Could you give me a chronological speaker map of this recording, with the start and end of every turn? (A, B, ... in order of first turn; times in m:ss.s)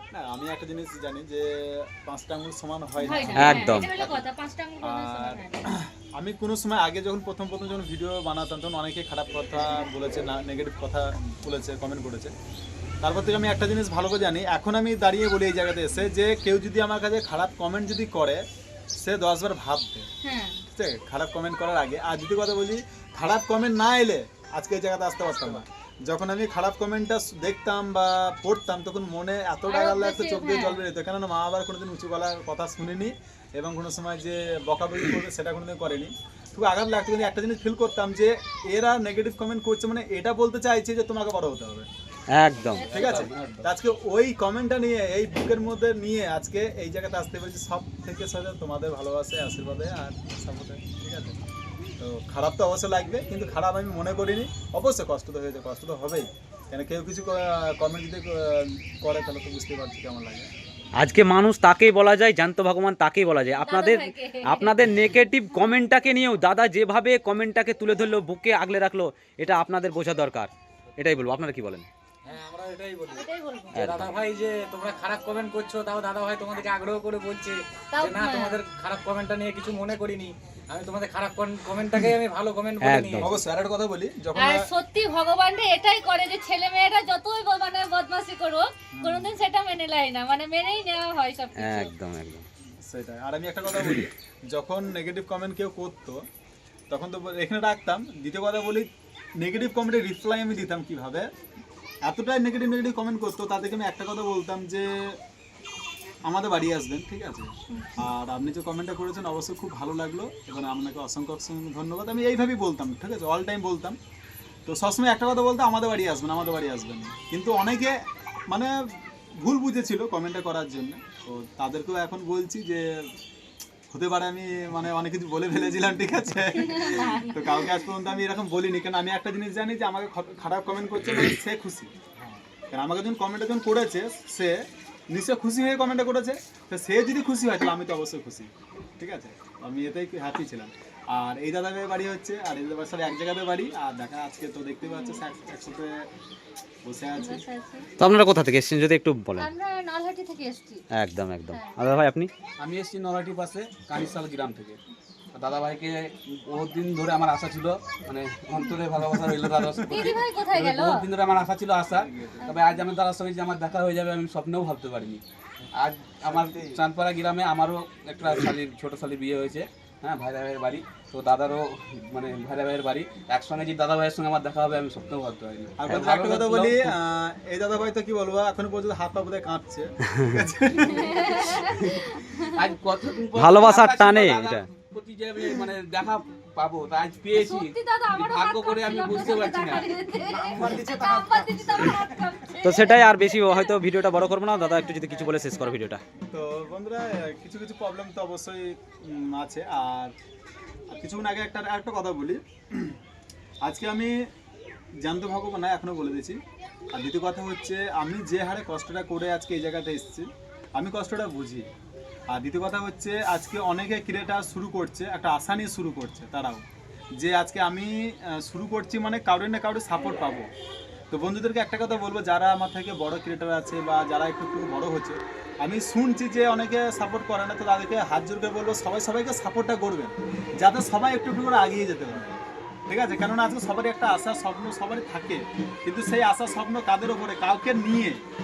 0:00.1-0:04.2 A
0:03.0-0:05.7 B
0:03.3-0:03.9 C
0:04.8-0:12.3 A
0:13.0-0:20.1 A
0:20.2-0:20.6 B
0:20.7-0:41.9 A
0:25.2-0:25.6 D
0:29.7-0:30.8 B
0:42.3-0:42.9 C
0:42.7-0:43.7 E
0:42.7-0:43.3 B
0:42.9-0:51.4 A
0:52.0-1:00.5 A
1:01.0-1:11.9 C
1:03.6-1:04.8 B
1:12.2-1:23.3 D
1:13.1-1:13.8 B
1:13.7-1:14.1 C
1:17.9-1:18.6 B
1:22.8-1:23.4 C
1:23.2-1:24.7 A
1:24.3-1:31.9 B
1:28.9-1:29.3 A
1:31.6-1:32.4 C
1:32.8-1:36.2 A
1:33.7-1:34.1 C
1:36.9-1:41.3 A
1:42.0-1:45.2 A
1:46.2-1:54.0 A
1:47.7-1:48.0 B
1:54.7-1:58.0 A
1:58.5-1:58.7 A
1:59.4-2:03.1 A
2:03.9-2:11.9 A
2:06.5-2:07.8 B
2:12.7-2:14.6 A
2:15.1-2:26.0 A
2:24.8-2:25.2 B
2:26.8-2:27.4 A
2:27.2-2:27.9 B
2:28.0-2:29.5 C
2:29.4-2:30.8 B
2:30.9-2:32.3 C
2:31.5-2:31.8 B
2:32.6-2:34.8 E
2:35.3-2:45.2 E
2:39.6-2:40.2 A
2:39.8-2:41.1 B
2:41.8-2:42.6 A
2:42.4-2:42.8 B
2:45.7-2:56.9 E
2:46.2-2:46.8 A
2:55.8-3:01.7 A
3:00.9-3:02.7 B
3:02.5-3:09.9 E
3:03.3-3:04.7 C
3:07.3-3:13.8 B
3:10.5-3:10.8 E
3:10.5-3:11.9 A
3:12.6-3:16.0 C
3:16.3-3:20.1 A
3:20.9-3:23.0 A
3:23.6-3:24.3 A
3:25.0-3:26.4 A
3:26.9-3:31.7 A
3:32.3-3:36.6 A
3:37.2-3:40.5 A
3:41.1-3:58.2 A